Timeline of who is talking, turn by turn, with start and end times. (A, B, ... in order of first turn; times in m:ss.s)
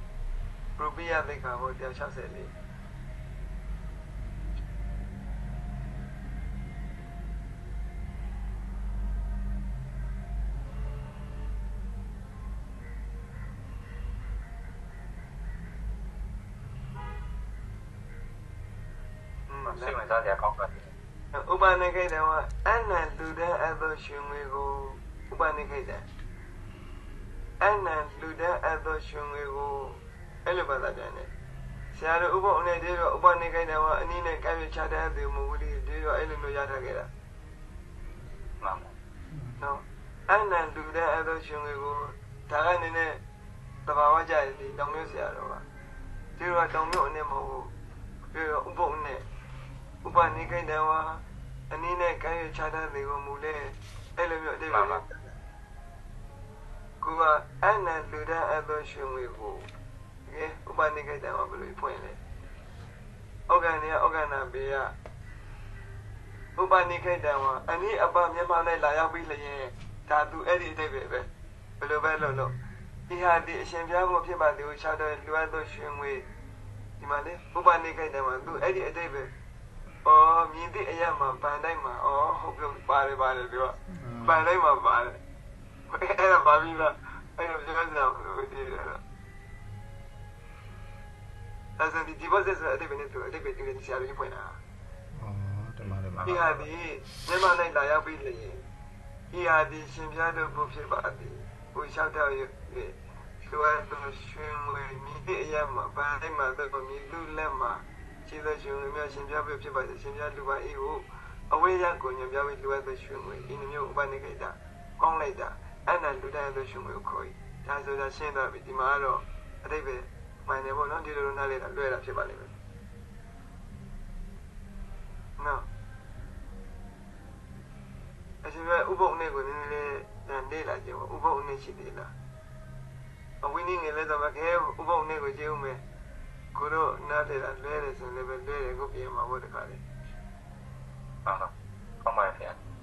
0:00.8-0:02.5 A
0:19.5-0:20.0 A
0:19.7-0:20.9 B
0:21.3-0:26.1 A
0:27.6-0:31.3 A
0:31.9-0:37.1 A
0:38.6-0:38.9 B
0:39.3-0:39.6 C
0:39.6-0:43.2 A
0:43.9-0:45.6 A
0:46.4-0:47.7 A
0:48.3-0:49.2 A
0:50.0-0:55.3 A
0:50.1-0:50.6 C
0:54.7-0:55.0 B
0:57.0-0:59.7 A
1:00.3-1:02.2 A
1:03.5-1:04.9 A
1:06.6-1:11.3 A
1:11.8-1:12.5 A
1:12.2-1:12.6 C
1:13.1-1:16.3 A
1:17.0-1:19.3 A
1:20.0-1:25.2 A
1:23.9-1:24.4 C
1:25.9-1:29.0 A
1:31.8-1:34.6 A
1:35.2-1:36.6 C
1:36.2-1:38.6 A
1:39.3-2:02.5 A
2:05.4-2:05.7 A
2:08.4-2:12.1 A
2:13.4-2:15.8 A
2:16.6-2:19.8 A
2:21.2-2:21.5 B
2:22.0-2:22.6 B